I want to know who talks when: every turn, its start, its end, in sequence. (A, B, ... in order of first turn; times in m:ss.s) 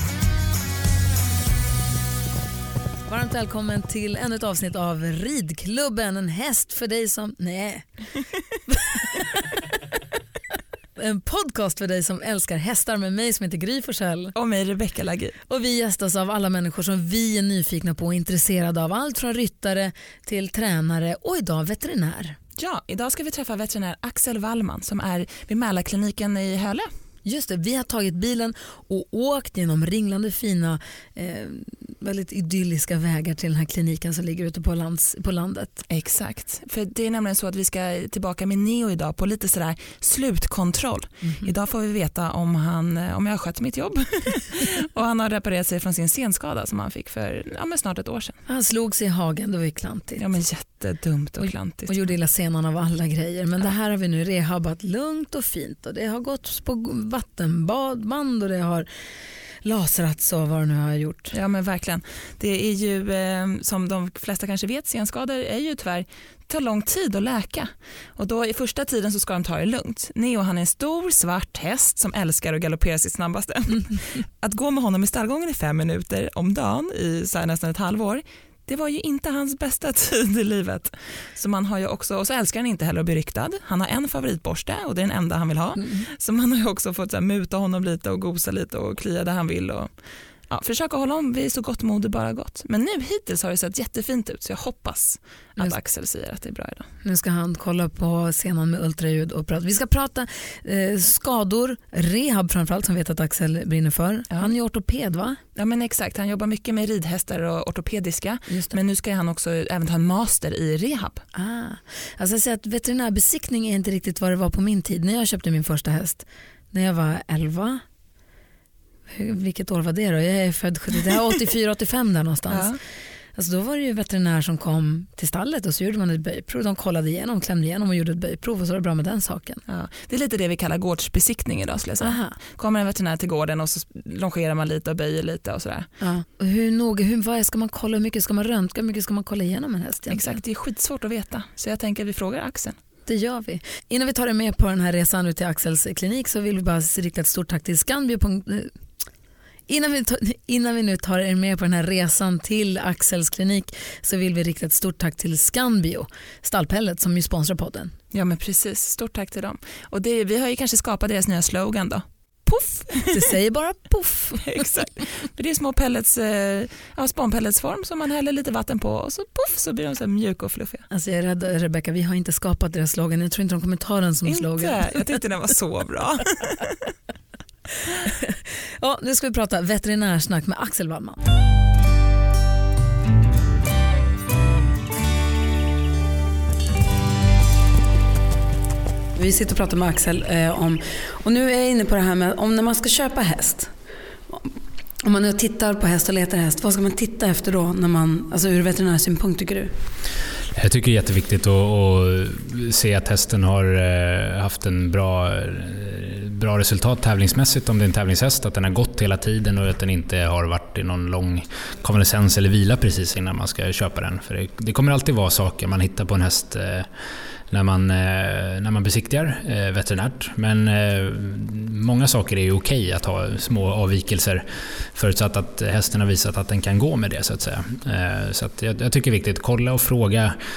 0:03.1-0:07.8 A
0:08.7-0:09.4 A
0:11.0-0:14.3 A
0:14.4-0:15.4 B
0:15.5-0:22.4 A
0:22.6-0:26.9 B
0:27.2-0:35.8 A
0:35.9-0:48.4 B
0:41.2-0:41.5 A
0:48.5-0:50.2 A
0:50.2-0:52.0 B
0:51.4-0:58.9 A
0:59.6-1:01.4 A
1:01.3-1:29.9 B
1:25.8-1:26.1 A
1:30.5-1:36.9 B
1:37.0-1:45.4 A
1:45.6-1:51.2 B
1:48.5-1:48.8 A
1:51.4-1:57.8 A
1:59.1-2:02.8 A
2:02.5-2:02.8 B
2:03.4-2:09.6 A
2:09.7-2:15.9 B
2:12.0-2:12.4 A
2:16.0-2:20.4 A
2:20.1-2:22.8 B
2:23.1-2:28.7 A
2:29.7-2:37.9 A
2:38.1-2:43.3 B
2:43.1-2:44.4 A
2:44.4-2:50.9 B
2:50.9-2:55.2 A
2:54.3-2:56.8 B
2:58.0-3:01.2 A
3:09.2-3:13.7 A
3:15.0-3:19.7 A
3:20.6-3:36.9 C
3:37.5-3:50.4 C